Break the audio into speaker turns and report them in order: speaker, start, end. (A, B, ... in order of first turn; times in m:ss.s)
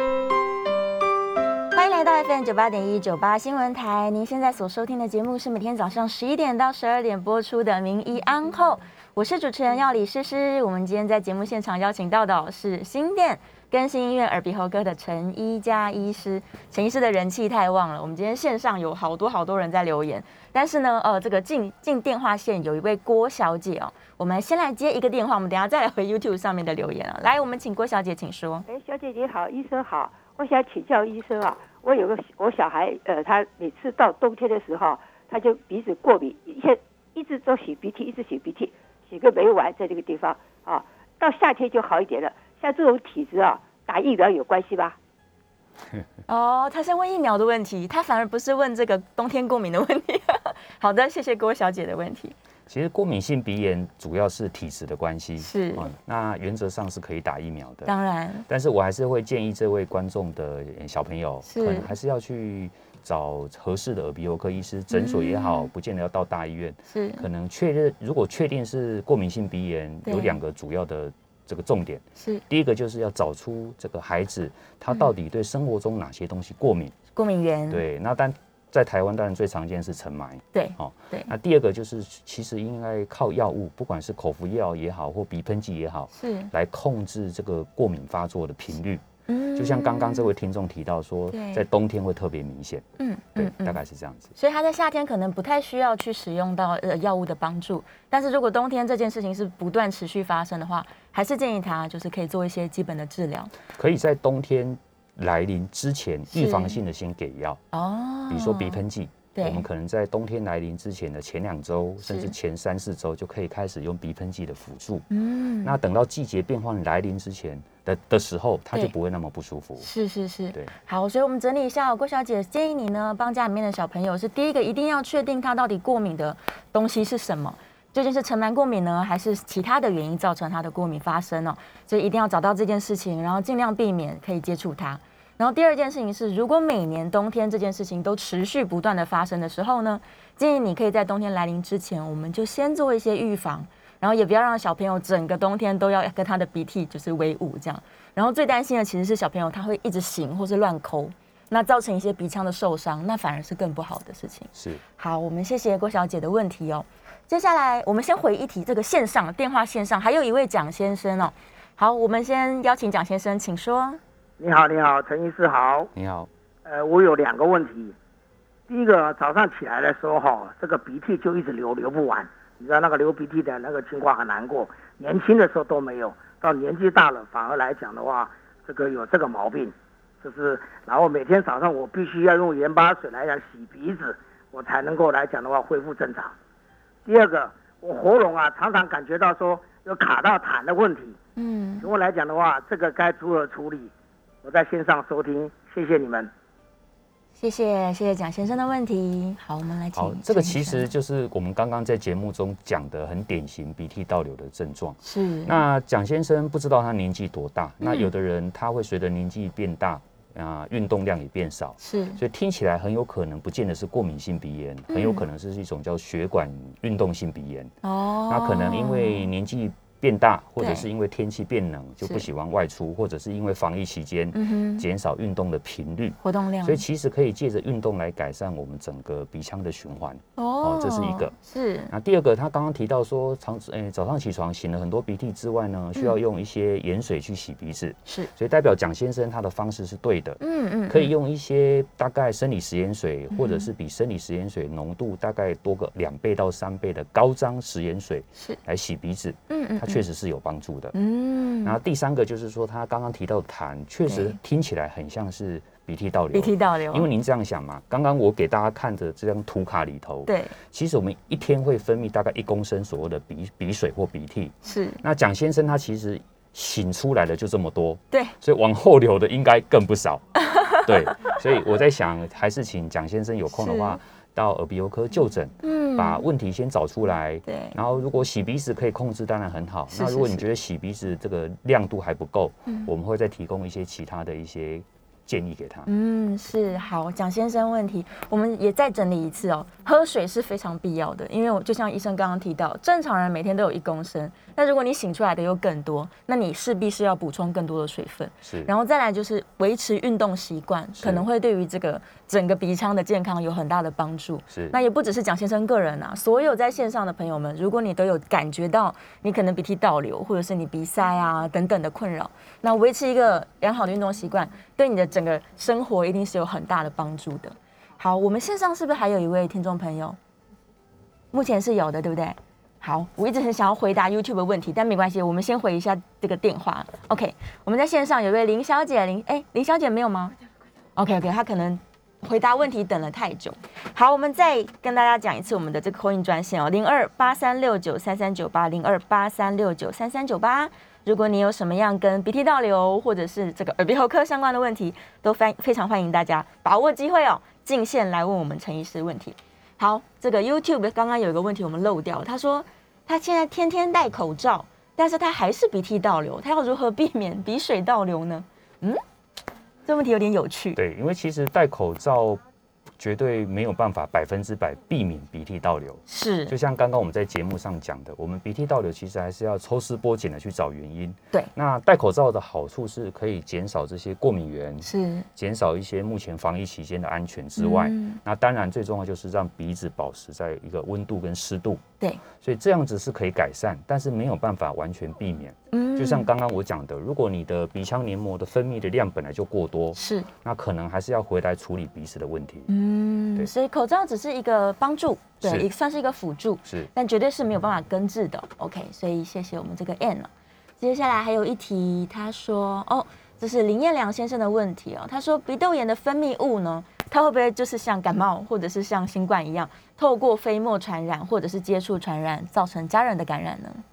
0:01.7-0:28.6 A
0:28.7-0:45.0 B
0:46.3-0:52.3 A
0:52.7-0:57.9 C
0:55.4-0:55.9 A
0:57.8-0:58.4 A
0:58.5-1:16.9 C
1:01.4-1:01.9 A
1:04.9-1:05.7 A
1:06.9-1:07.2 A
1:10.0-1:10.4 A
1:17.1-1:17.8 A
1:17.7-1:29.0 C
1:20.5-1:21.3 A
1:26.1-1:26.5 A
1:29.3-1:30.3 A
1:29.6-1:32.8 C
1:31.3-1:31.6 A
1:33.0-1:33.8 A
1:33.4-1:34.3 C
1:34.4-1:43.5 A
1:43.8-1:47.6 C
1:46.3-1:46.8 A
1:47.7-1:48.8 A
1:48.3-1:55.1 C
1:49.3-1:49.6 A
1:52.0-1:52.3 A
1:55.1-1:55.7 A
1:55.6-1:59.9 C
1:59.8-2:44.0 A
2:34.5-2:34.8 C
2:44.4-2:45.9 D
2:45.9-2:46.3 C
2:46.6-2:47.9 D
2:48.7-3:06.3 D
3:07.0-3:11.2 D
3:11.4-3:11.9 A
3:11.8-3:13.9 D
3:14.4-3:16.3 D
3:17.4-3:20.9 A
3:19.9-3:37.7 C
3:25.0-3:25.6 A
3:27.8-3:28.1 A
3:31.8-3:32.2 A
3:34.9-3:35.2 A
3:37.8-3:39.3 A
3:38.3-3:51.3 C
3:40.6-3:40.8 A
3:44.3-3:44.8 A
3:46.2-3:46.8 A
3:50.4-3:51.9 A
3:51.9-4:10.9 C
4:00.4-4:01.1 A
4:03.3-4:03.7 A
4:09.5-4:10.0 A
4:10.9-4:11.8 A
4:11.6-4:30.2 C
4:14.1-4:14.4 A
4:16.3-4:17.1 A
4:20.2-4:20.5 A
4:24.6-4:25.0 A
4:30.4-4:31.3 A
4:30.7-4:45.9 C
4:33.5-4:34.0 A
4:35.6-4:36.2 A
4:37.4-4:37.7 A
4:39.9-4:40.4 A
4:45.9-5:20.2 A
4:58.4-4:58.7 C
5:01.0-5:01.2 C
5:04.5-5:04.8 C
5:21.3-5:30.4 A
5:31.0-5:59.0 A
5:59.8-6:00.8 A
6:00.8-6:02.4 C
6:03.0-6:21.8 C
6:06.1-6:06.5 A
6:14.8-6:15.3 A
6:17.6-6:18.2 A
6:22.4-6:32.7 C
6:25.7-6:26.3 A
6:29.9-6:30.3 A
6:32.7-6:53.8 A
6:35.4-6:35.7 C
6:36.6-6:36.9 C